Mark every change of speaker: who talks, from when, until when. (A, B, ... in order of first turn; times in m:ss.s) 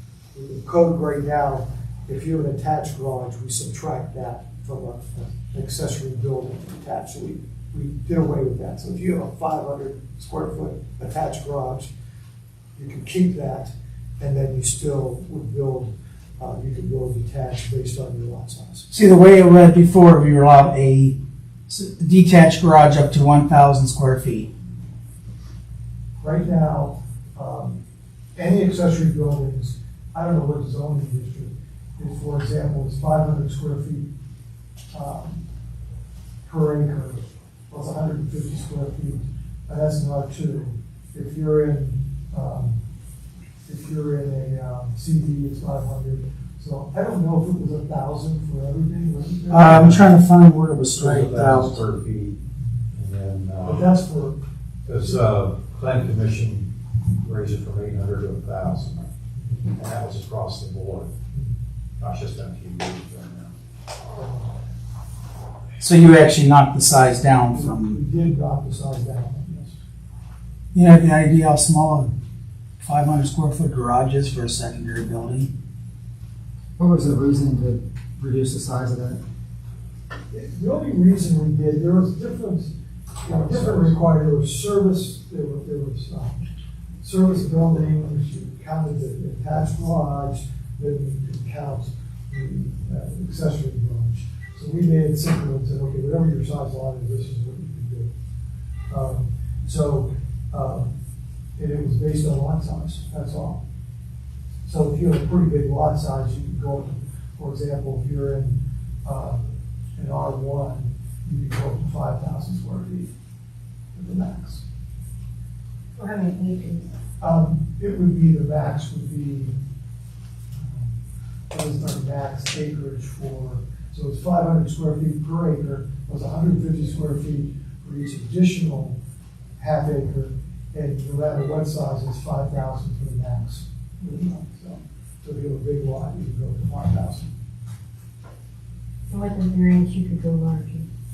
0:00.3-0:11.9 A
0:12.8-0:18.9 A
0:18.9-0:21.2 B
0:21.7-0:24.5 B
0:26.2-0:27.8 A
0:28.4-0:34.1 A
0:34.9-0:35.4 A
0:36.5-0:42.8 A
0:43.7-0:50.0 A
0:49.5-0:51.8 B
0:49.7-0:50.1 C
0:51.0-0:52.4 C
0:52.9-0:53.9 C
0:53.6-0:54.4 A
0:54.9-0:59.1 C
0:59.7-1:01.1 C
1:01.3-1:01.6 A
1:02.0-1:03.5 C
1:04.2-1:04.7 A
1:05.8-1:08.0 B
1:07.5-1:09.8 A
1:10.7-1:12.2 B
1:12.8-1:15.5 B
1:16.8-1:19.2 D
1:20.3-1:26.4 A
1:23.3-1:24.0 C
1:27.0-1:38.1 A
1:38.9-1:40.9 A
1:41.6-1:43.6 A
1:44.7-1:53.1 A
1:54.0-1:54.6 A
1:56.0-1:56.9 E
1:57.2-1:59.6 A
2:00.5-2:01.0 A
2:01.5-2:09.0 A
2:09.6-2:17.3 A
2:19.1-2:20.9 E